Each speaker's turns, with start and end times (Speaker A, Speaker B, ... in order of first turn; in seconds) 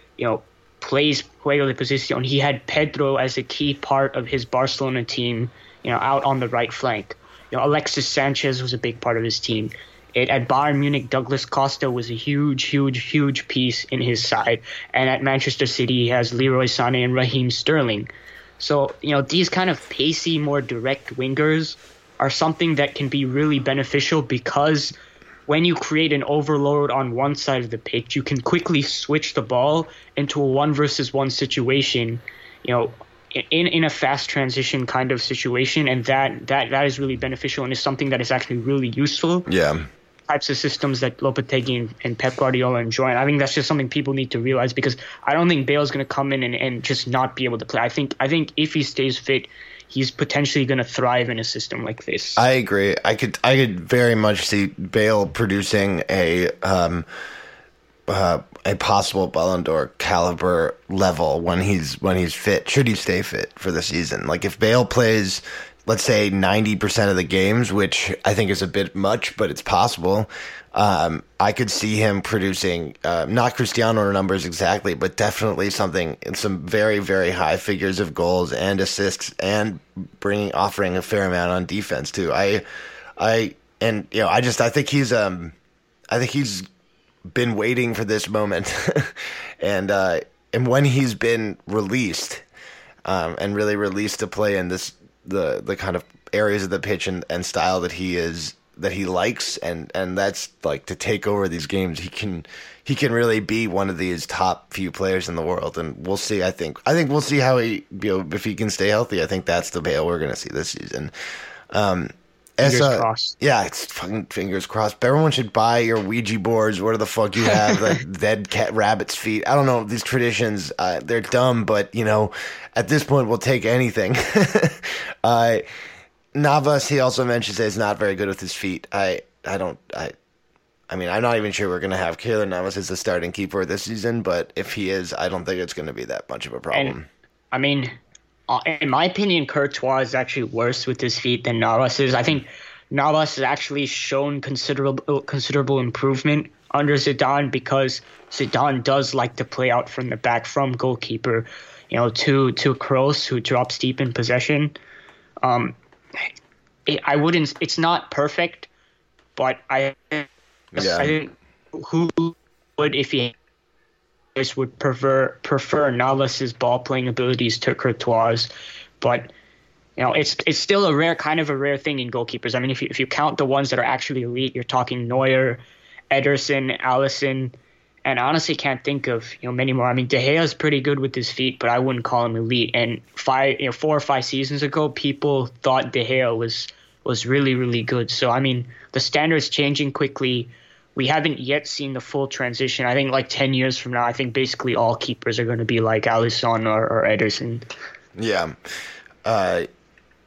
Speaker A: 0.2-18.1, 18.6-24.9, 25.5-39.5, 40.3-52.4, 112.6-113.3, 137.5-137.9, 138.5-154.7, 155.4-156.3, 156.9-158.7, 159.3-163.3, 164.3-168.5, 169.0-169.3, 170.0-175.6, 176.1-197.6
Speaker B: 39.5-39.9, 52.4-57.1, 58.1-82.6, 83.2-85.5, 86.1-86.7, 87.3-92.4, 93.0-111.1, 111.7-125.7, 126.3-130.1, 130.9-137.1, 160.7-161.1, 198.2-198.6, 199.2-199.7